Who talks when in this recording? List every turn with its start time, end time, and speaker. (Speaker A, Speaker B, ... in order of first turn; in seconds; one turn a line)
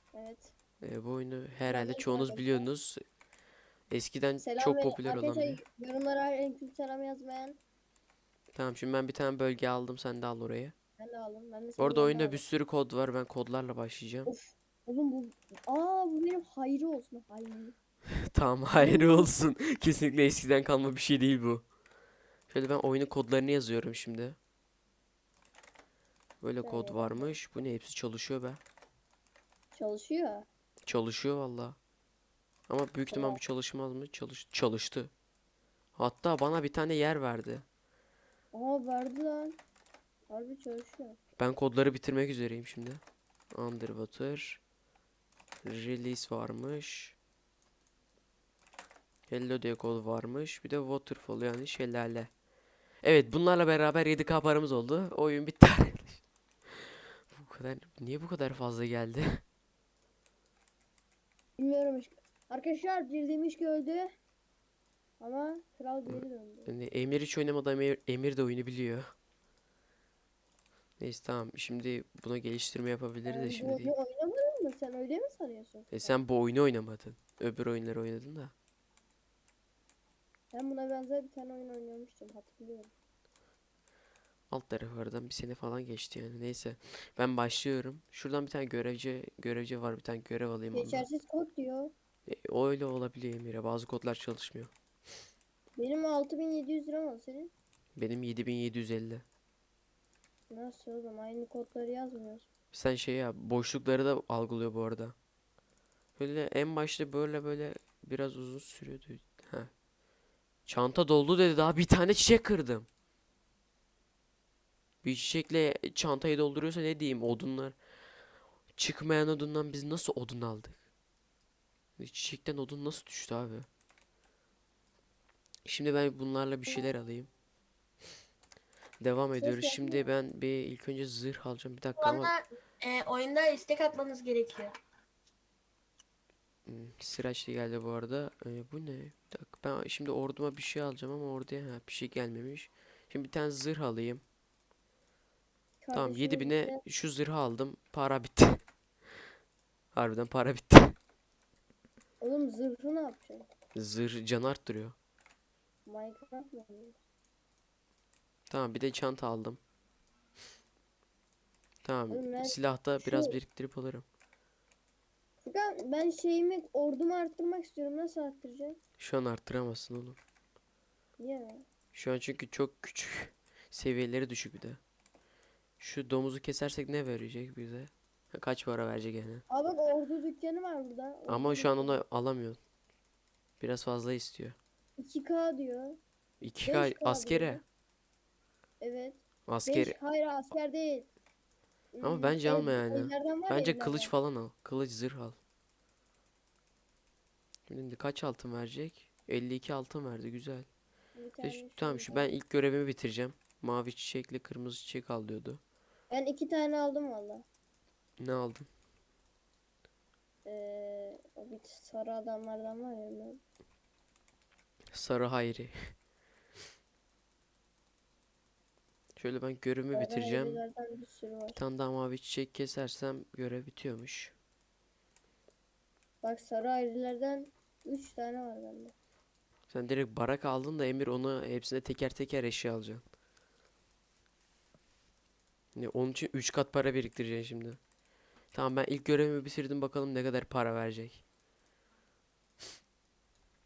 Speaker A: 0.1-0.5
Speaker B: 0.8-3.0
Speaker A: 1.7-2.7
Speaker B: 3.9-5.6
Speaker A: 4.4-7.6
Speaker B: 8.6-10.7
Speaker A: 11.0-12.4
Speaker B: 11.8-14.3
Speaker A: 14.3-17.8
Speaker B: 18.3-21.6
Speaker A: 18.7-19.3
Speaker B: 22.5-24.4
Speaker B: 26.4-28.6
Speaker A: 26.6-27.4
Speaker A: 29.7-30.5
Speaker B: 30.9-31.8
Speaker B: 32.7-35.1
Speaker A: 33.1-33.4
Speaker B: 36.0-37.6
Speaker A: 38.5-39.6
Speaker A: 40.3-41.2
Speaker B: 41.4-43.0
Speaker B: 43.5-44.6
Speaker B: 45.6-47.2
Speaker B: 49.3-52.3
Speaker B: 53.0-59.4
Speaker A: 61.6-64.1
Speaker A: 65.2-66.7
Speaker B: 66.1-69.1
Speaker B: 71.0-73.9
Speaker A: 73.2-76.2
Speaker B: 75.9-78.5
Speaker A: 80.5-82.9
Speaker B: 84.5-91.1
Speaker A: 90.7-91.9
Speaker B: 92.3-94.7
Speaker A: 95.8-97.5
Speaker B: 98.0-99.2
Speaker A: 100.5-102.5
Speaker B: 102.7-105.2
Speaker B: 106.2-109.7
Speaker B: 110.7-112.9
Speaker B: 115.0-117.8
Speaker B: 118.8-120.8
Speaker B: 122.0-123.7
Speaker B: 125.7-127.3
Speaker B: 129.0-132.3
Speaker A: 129.3-130.1
Speaker C: 132.0-134.8
Speaker B: 136.7-144.2
Speaker A: 145.8-146.8
Speaker B: 145.9-148.6
Speaker B: 149.9-151.0
Speaker A: 152.2-153.5
Speaker B: 153.8-155.0
Speaker A: 155.9-157.0
Speaker B: 158.5-159.6
Speaker B: 161.8-164.1
Speaker A: 162.1-163.4
Speaker A: 165.4-168.8
Speaker B: 169.0-170.2
Speaker A: 171.2-171.7
Speaker B: 171.9-174.8
Speaker B: 175.8-179.4
Speaker A: 179.5-182.0
Speaker B: 181.3-182.6
Speaker B: 183.6-184.6
Speaker A: 185.0-186.0
Speaker B: 186.4-187.6
Speaker A: 186.7-187.6
Speaker A: 188.8-191.1
Speaker B: 189.5-190.0
Speaker A: 191.9-194.1
Speaker B: 192.0-195.4
Speaker B: 197.7-200.7
Speaker A: 201.2-202.3
Speaker B: 201.4-205.6
Speaker A: 206.1-207.5
Speaker B: 208.2-208.7
Speaker A: 210.4-213.4
Speaker B: 214.9-215.7
Speaker B: 219.2-220.6
Speaker A: 219.9-221.6
Speaker B: 221.6-224.3
Speaker A: 226.2-228.9
Speaker B: 229.7-233.1
Speaker B: 235.8-237.8
Speaker B: 238.5-241.2